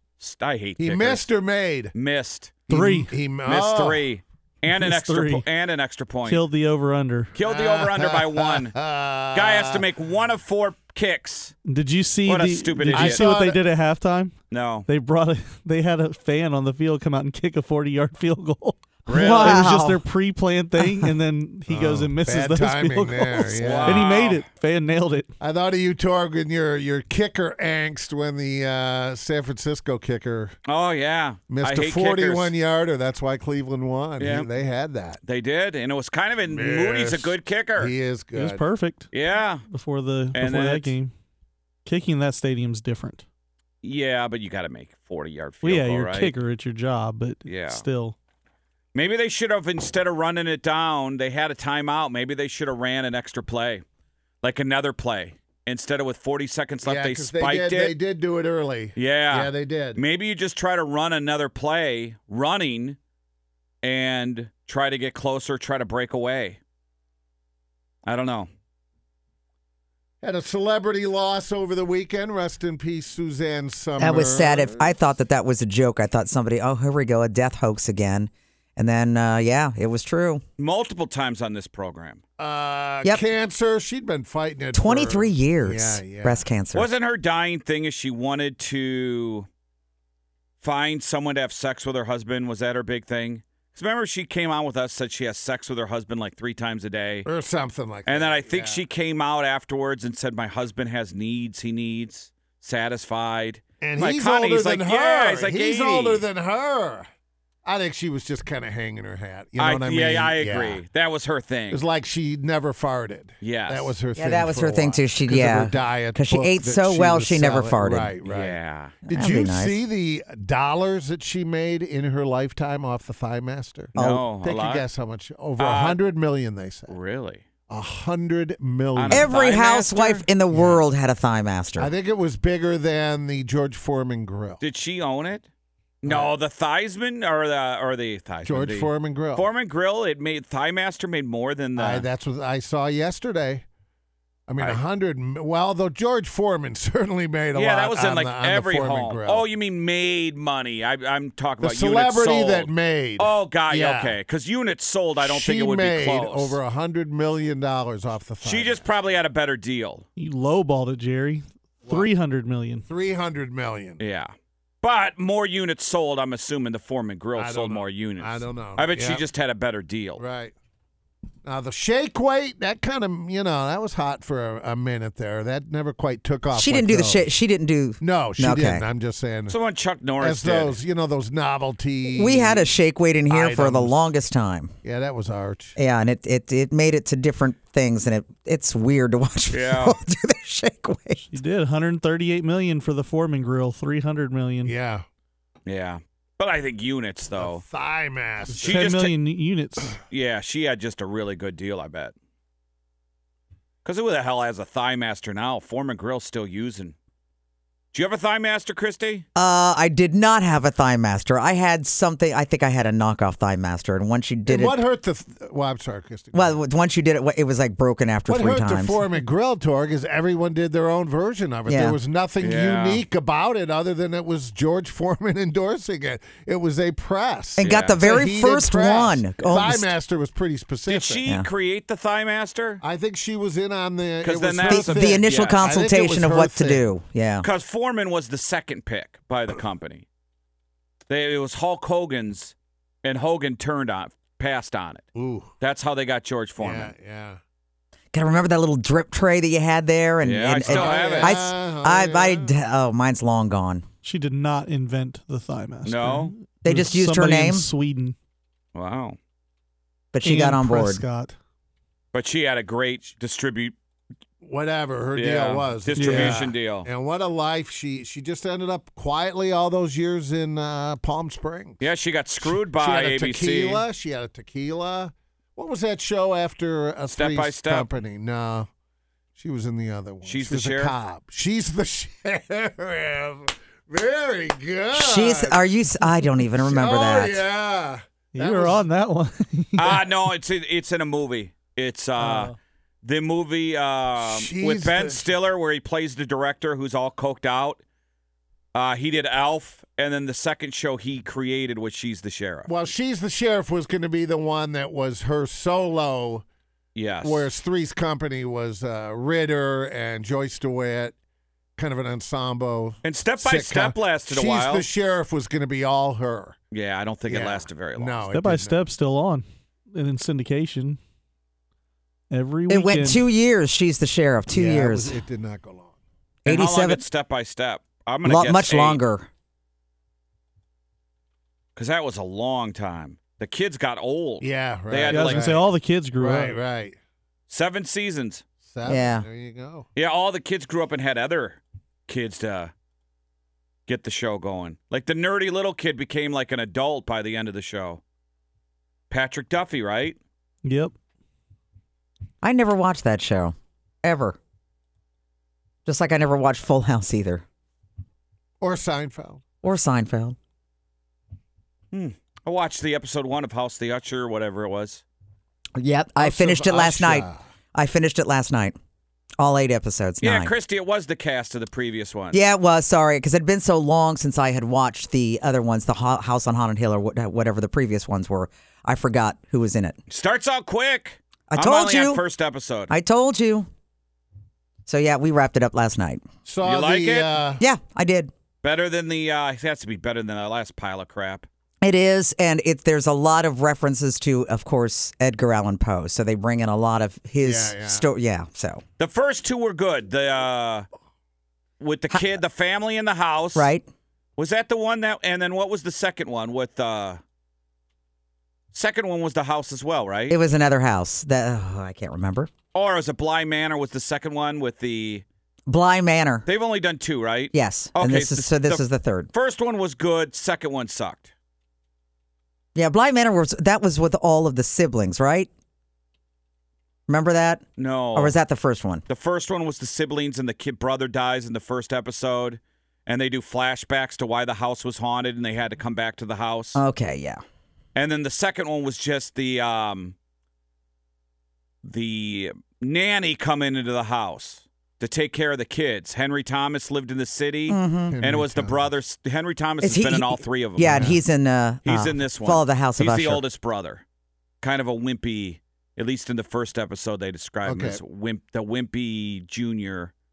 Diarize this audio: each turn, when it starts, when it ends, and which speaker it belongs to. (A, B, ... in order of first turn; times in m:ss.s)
0:00.2-0:01.2 A
0:00.8-0:01.9 B
0:01.9-0:02.6 A
0:02.7-0:04.0 B
0:02.7-0:03.1 C
0:03.4-0:06.4 A
0:04.7-0:05.4 C
0:06.2-0:07.3 C
0:07.3-0:08.7 A
0:07.4-0:09.8 B
0:09.3-0:11.5 A
0:11.6-0:14.3 C
0:12.2-0:13.2 A
0:12.9-0:13.6 B
0:14.5-0:14.9 A
0:14.9-0:25.3 C
0:19.1-0:19.6 A
0:19.1-0:20.0 D
0:20.8-0:21.1 D
0:21.7-0:24.1 B
0:23.6-0:24.4 A
0:25.4-0:30.5 B
0:30.7-0:32.5 A
0:31.5-0:35.2 B
0:34.2-0:34.5 A
0:35.2-0:37.9 A
0:36.5-0:38.6 B
0:38.3-0:39.1 C
0:39.1-0:39.6 A
0:39.7-0:41.1 C
0:40.3-0:41.0 A
0:41.8-0:43.2 C
0:43.8-0:46.3 A
0:45.6-0:48.1 C
0:47.4-0:47.8 A
0:48.9-0:53.8 A
0:54.4-0:58.0 A
0:56.8-1:00.0 B
0:59.0-1:03.0 A
1:03.8-1:06.6 A
1:08.0-1:08.5 A
1:10.2-1:14.9 B
1:14.0-1:20.4 D
1:20.6-1:22.2 A
1:22.4-1:26.4 B
1:24.7-1:26.9 D
1:26.7-1:29.5 A
1:30.6-1:37.3 A
1:37.2-1:38.8 B
1:38.0-1:46.2 A
1:43.8-1:47.1 B
1:47.6-1:50.8 B
1:49.6-1:51.8 A
1:51.7-2:06.9 B
1:53.4-1:53.9 A
1:54.1-1:58.1 D
1:58.2-1:59.0 A
1:59.1-1:59.8 D
2:03.9-2:04.8 A
2:04.0-2:04.2 D
2:05.6-2:06.0 A
2:06.9-2:07.4 A
2:07.7-2:09.3 B
2:08.9-2:10.2 A
2:09.1-2:11.9 D
2:10.5-2:10.8 B
2:11.8-2:14.6 B
2:14.6-2:15.5 A
2:16.0-2:22.1 A
2:16.0-2:16.3 B
2:18.4-2:19.5 B
2:21.8-2:23.6 B
2:24.5-2:29.4 B
2:27.5-2:36.6 A
2:31.6-2:34.1 B
2:35.2-2:38.8 B
2:38.4-2:40.0 A
2:40.2-2:42.8 C
2:42.9-2:44.0 B
2:44.0-2:50.2 A
2:47.3-2:49.2 B
2:50.2-2:50.5 B
2:51.4-2:57.3 B
2:56.5-2:58.8 D
2:58.0-2:59.6 B
2:59.5-3:00.8 A
3:00.2-3:02.7 B
3:02.1-3:04.7 D
3:03.3-3:04.0 B
3:04.8-3:05.8 B
3:05.8-3:11.3 D
3:09.5-3:10.0 A
3:11.3-3:14.7 C
3:14.6-3:15.0 B
3:15.6-3:17.6 A
3:17.4-3:18.9 B
3:18.5-3:20.0 C
3:18.6-3:19.1 A
3:20.1-3:22.1 A
3:23.8-3:26.9 A
3:27.9-3:29.2 A
3:29.4-3:34.8 D
3:34.5-3:36.6 B
3:36.3-3:39.0 D
3:38.3-3:51.2 B
3:41.7-3:42.0 D
3:42.4-3:43.0 A
3:47.6-3:49.9 D
3:47.6-3:48.0 A
3:50.9-3:52.8 A
3:52.8-3:56.8 B
3:54.2-3:55.6 A
3:54.6-3:57.5 D
3:57.4-4:00.0 A
4:01.1-4:05.0 A
4:05.1-4:05.5 B
4:05.6-4:06.9 A
4:06.6-4:07.4 B
4:08.1-4:13.8 D
4:10.2-4:11.4 A
4:10.6-4:12.5 B
4:14.0-4:18.1 C
4:15.8-4:16.3 A
4:16.6-4:17.7 D
4:18.7-4:19.2 A
4:20.1-4:21.0 D
4:20.2-4:21.3 C
4:22.1-4:23.7 A
4:24.4-4:31.8 B
4:25.2-4:26.9 A
4:26.0-4:26.4 C
4:31.8-4:33.8 A
4:32.4-4:38.7 B
4:37.2-4:37.9 A
4:39.4-4:45.6 B
4:40.2-4:40.9 A
4:44.9-4:47.4 D
4:46.6-4:48.8 B
4:48.3-4:50.0 C
4:49.8-4:57.8 A
4:54.2-4:55.3 B
4:58.7-5:02.7 A
5:02.6-5:06.4 B
5:06.9-5:07.4 A
5:07.2-5:11.1 B
5:11.8-5:16.6 B
5:13.0-5:14.8 A
5:16.7-5:18.2 A
5:17.3-5:18.8 B
5:18.3-5:21.0 C
5:22.3-5:23.2 C
5:22.7-5:25.2 D
5:24.5-5:25.9 B
5:26.4-5:27.0 D
5:26.4-5:29.0 A
5:28.2-5:29.3 D
5:31.7-5:35.5 A
5:34.4-5:35.6 B
5:35.1-5:36.6 C
5:36.2-5:37.0 B
5:37.5-5:38.4 A
5:38.6-5:39.9 B
5:38.8-5:39.2 D
5:40.0-5:42.7 A
5:43.9-5:48.0 A
5:49.1-5:50.2 A
5:50.6-5:50.9 C
5:52.4-5:54.4 D
5:55.8-5:57.4 D
5:58.6-5:59.4 B
5:59.6-6:00.4 D
6:01.9-6:05.0 A
6:05.8-6:08.8 D
6:06.2-6:07.4 B
6:09.4-6:10.5 D
6:10.2-6:12.4 A
6:12.3-6:20.0 D
6:20.1-6:22.9 A
6:21.5-6:22.2 D
6:22.9-6:23.7 D
6:24.8-6:26.2 D
6:26.4-6:27.6 B
6:26.6-6:27.4 A
6:27.6-6:28.3 D
6:28.6-6:31.4 A
6:31.8-6:38.8 D
6:37.4-6:38.0 B
6:39.0-6:40.9 A
6:41.8-6:43.7 A
6:43.5-6:43.8 D
6:44.4-6:47.2 A
6:48.7-6:50.4 A
6:50.3-6:52.5 D
6:52.7-6:55.2 A
6:55.7-6:56.4 D
6:56.4-7:01.3 A
6:57.5-6:59.3 D
7:02.7-7:05.5 D
7:07.1-7:09.0 D
7:07.8-7:08.4 A
7:09.1-7:16.8 A
7:16.7-7:17.4 D
7:17.9-7:20.1 A
7:21.8-7:31.1 A
7:27.7-7:28.2 D
7:28.1-7:28.9 B
7:29.8-7:33.4 D
7:30.8-7:31.2 B
7:31.8-7:34.0 A
7:34.6-7:40.1 A
7:37.6-7:38.0 B